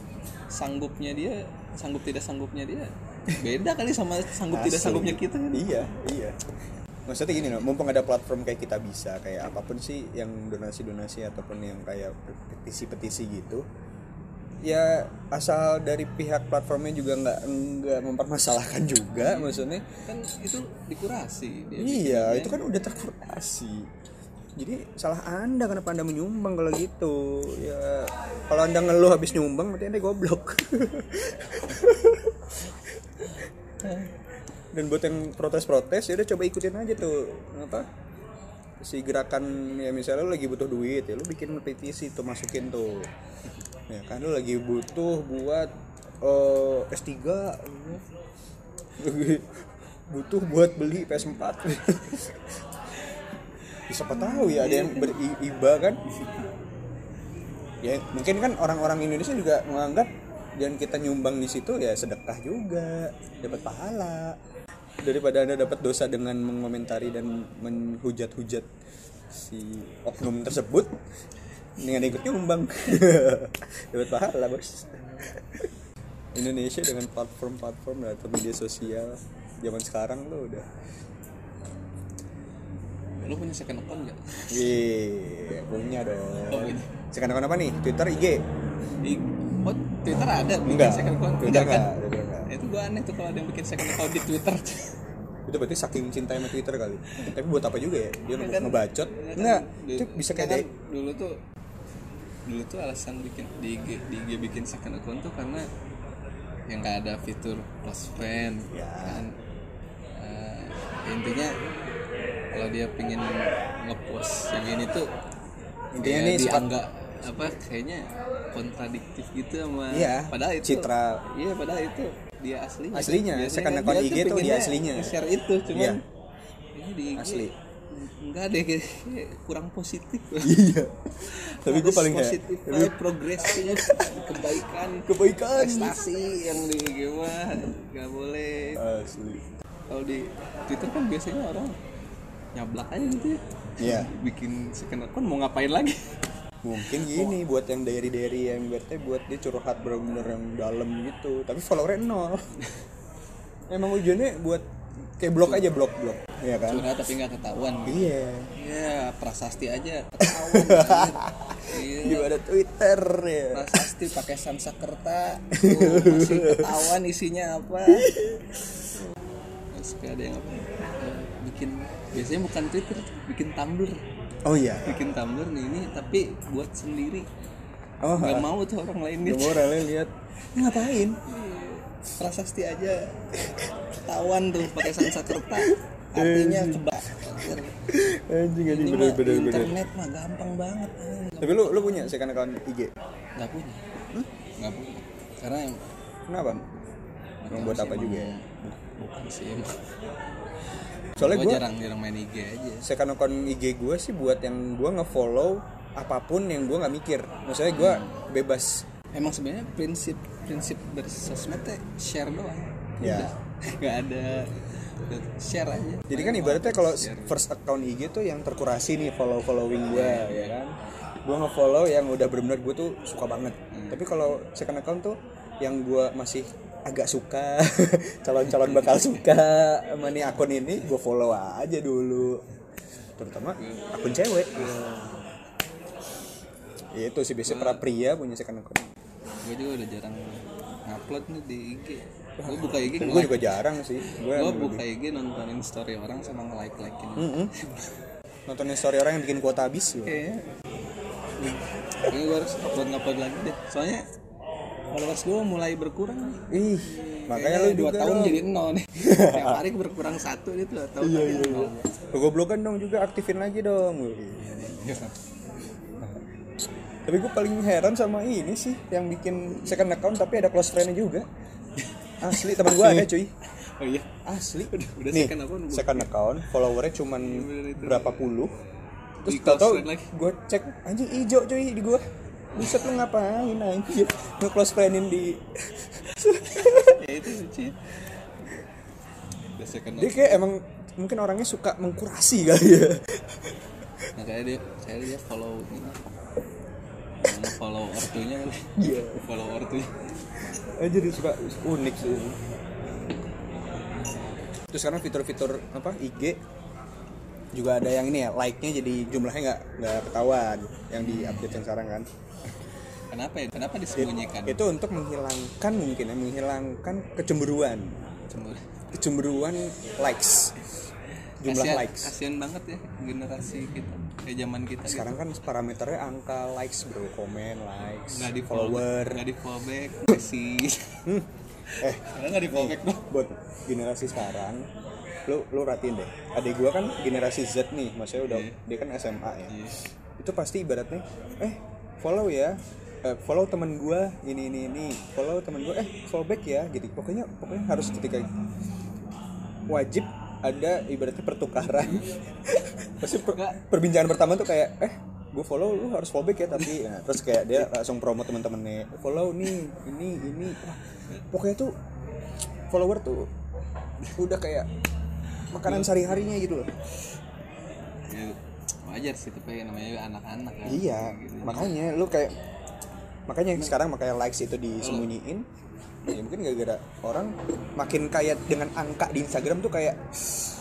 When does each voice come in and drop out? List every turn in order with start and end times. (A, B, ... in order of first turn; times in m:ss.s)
0:00.5-0:05.6 A
0:04.5-0:06.4 B
0:07.1-0:13.6 B
0:14.6-0:19.8 B
0:19.2-0:22.6 A
0:21.8-0:23.9 B
0:24.6-0:32.7 B
0:33.3-0:34.1 A
0:34.7-0:37.9 B
0:38.8-0:43.1 B
0:43.9-0:45.7 B
0:46.2-0:48.0 B
0:49.0-0:52.5 B
0:53.9-0:56.0 B
0:54.2-0:55.2 A
0:56.1-0:56.4 A
0:57.8-1:04.4 B
1:05.0-1:08.7 B
1:09.3-1:11.0 B
1:11.8-1:15.7 B
1:16.3-1:20.7 B
1:23.2-1:24.8 A
1:24.5-1:28.4 B
1:26.5-1:26.9 A
1:29.0-1:31.9 A
1:30.7-1:32.5 B
1:32.5-1:34.9 A
1:35.5-1:40.6 B
1:38.4-1:41.4 A
1:42.5-1:45.7 A
1:46.7-1:49.4 A
1:48.7-1:49.2 B
1:50.2-1:51.5 A
1:52.5-1:55.1 A
1:55.9-1:56.7 B
1:56.0-2:06.0 A
1:59.9-2:01.2 B
2:02.9-2:05.2 B
2:05.7-2:06.0 B
2:06.8-2:10.6 A
2:07.2-2:07.6 B
2:10.4-2:10.9 B
2:11.3-2:18.8 A
2:11.6-2:14.5 B
2:15.1-2:16.0 B
2:18.8-2:19.5 B
2:19.9-2:21.8 A
2:22.6-2:26.1 A
2:23.8-2:24.1 B
2:26.6-2:32.5 B
2:26.9-2:27.4 A
2:33.7-2:34.7 B
2:35.2-2:36.9 B
2:36.6-2:42.3 A
2:37.9-2:38.5 B
2:40.2-2:43.8 B
2:43.5-2:48.2 A
2:45.5-2:46.9 B
2:47.9-2:48.4 B
2:49.7-2:54.0 A
2:54.4-2:54.9 B
2:54.8-2:57.3 A
2:58.0-2:58.5 B
2:58.2-2:59.7 A
2:59.2-3:01.2 B
3:01.3-3:03.2 A
3:04.0-3:07.8 A
3:04.7-3:09.8 B
3:08.7-3:12.1 A
3:11.4-3:12.9 B
3:13.4-3:13.8 A
3:14.6-3:15.9 A
3:16.3-3:16.6 B
3:17.4-3:19.8 A
3:17.5-3:18.3 B
3:21.2-3:21.6 B
3:21.2-3:22.9 A
3:22.8-3:28.8 B
3:27.8-3:28.2 A
3:29.1-3:37.4 A
3:33.0-3:33.3 B
3:36.1-3:40.7 B
3:39.9-3:40.6 A
3:41.3-3:52.4 B
3:43.7-3:44.0 A
3:48.5-3:49.1 A
3:53.2-3:55.2 B
3:53.6-3:55.0 A
3:56.9-3:58.9 B
3:57.4-3:57.8 A
3:59.4-4:03.5 A
4:02.4-4:04.8 B
4:04.3-4:07.9 A
4:07.2-4:07.5 B
4:08.5-4:10.2 B
4:10.1-4:10.5 A
4:11.4-4:14.0 A
4:14.9-4:21.9 A
4:16.5-4:18.4 B
4:19.0-4:19.6 B
4:21.0-4:24.5 B
4:24.4-4:25.1 A
4:27.1-4:31.3 B
4:31.8-4:33.1 A
4:32.2-4:33.3 B
4:33.8-4:34.1 A
4:34.3-4:38.5 B
4:34.7-4:36.1 A
4:37.1-4:38.2 A
4:39.2-4:42.0 B
4:39.3-4:40.1 A
4:42.6-4:45.4 B
4:42.6-4:42.8 A
4:46.1-4:47.0 B
4:46.3-4:47.8 A
4:49.6-4:50.5 A
4:50.0-4:53.6 B
4:54.2-4:56.1 A
4:57.2-4:59.9 A
4:58.8-4:59.2 B
5:00.8-5:02.4 B
5:04.7-5:06.4 B
5:07.6-5:12.1 B
5:11.0-5:11.6 A
5:13.1-5:14.6 A
5:14.0-5:18.2 B
5:18.3-5:18.6 A
5:18.9-5:20.5 B
5:21.4-5:22.1 B
5:21.5-5:25.2 A
5:24.8-5:29.2 B
5:28.1-5:31.0 A
5:31.7-5:33.0 A
5:31.8-5:34.7 B
5:35.3-5:39.5 B
5:38.2-5:38.6 A
5:39.5-5:39.8 A
5:40.2-5:48.3 B
5:49.7-6:00.8 B
5:53.2-5:53.6 A
6:01.3-6:01.7 B
6:02.7-6:03.3 B
6:04.2-6:04.7 B
6:05.5-6:06.7 B
6:05.6-6:06.3 A
6:08.1-6:11.7 A
6:10.7-6:12.3 B
6:13.3-6:15.4 B
6:14.8-6:15.1 A
6:16.1-6:20.0 B